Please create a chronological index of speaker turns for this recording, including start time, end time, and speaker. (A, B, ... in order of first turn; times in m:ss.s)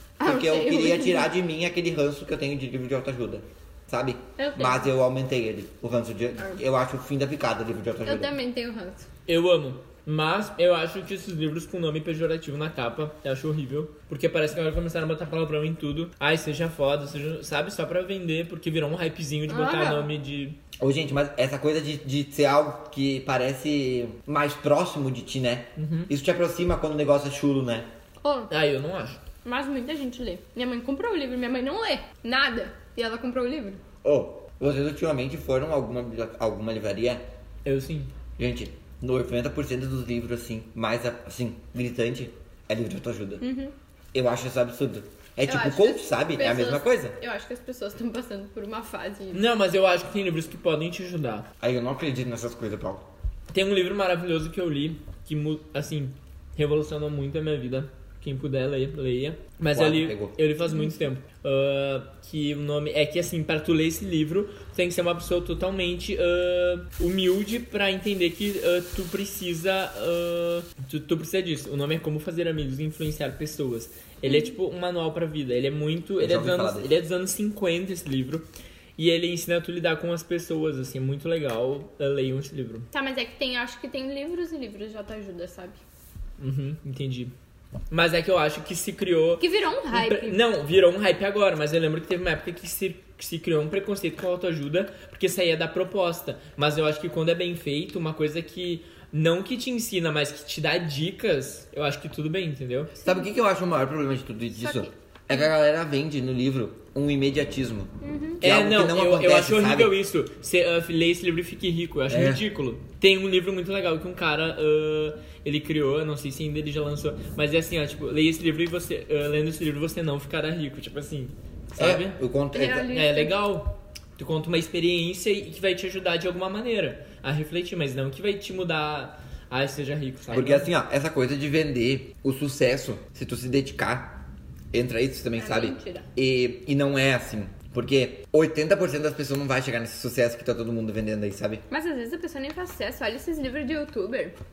0:00.2-0:01.3 A
0:00.2-0:08.3 B
0:04.4-0:04.8 A
0:08.0-0:09.1 A
0:09.3-0:20.6 C
0:19.5-0:20.1 A
0:20.8-0:27.9 B
0:25.8-0:26.1 C
0:28.2-0:28.5 A
0:28.5-0:29.2 C
0:29.4-0:33.8 A
0:34.0-0:37.2 B
0:37.6-0:38.1 C
0:38.4-0:43.4 B
0:43.4-0:43.7 A
0:44.1-0:47.2 B
0:45.4-0:49.4 A
0:49.3-0:51.5 C
0:51.6-0:53.1 B
0:53.5-1:18.4 C
0:59.7-1:00.3 B
1:14.2-1:14.5 A
1:16.2-1:16.9 B
1:19.0-1:22.9 C
1:22.9-1:25.8 A
1:26.4-1:27.3 C
1:27.9-1:42.9 C
1:29.4-1:30.4 A
1:43.0-1:43.2 A
1:43.0-1:50.0 B
1:44.6-1:44.9 A
1:48.0-1:48.4 A
1:48.4-2:02.2 C
1:52.1-1:52.4 B
2:01.8-2:02.9 B
2:02.5-2:03.3 A
2:02.9-2:10.7 C
2:10.3-2:21.6 B
2:15.4-2:16.0 A
2:21.7-2:24.3 A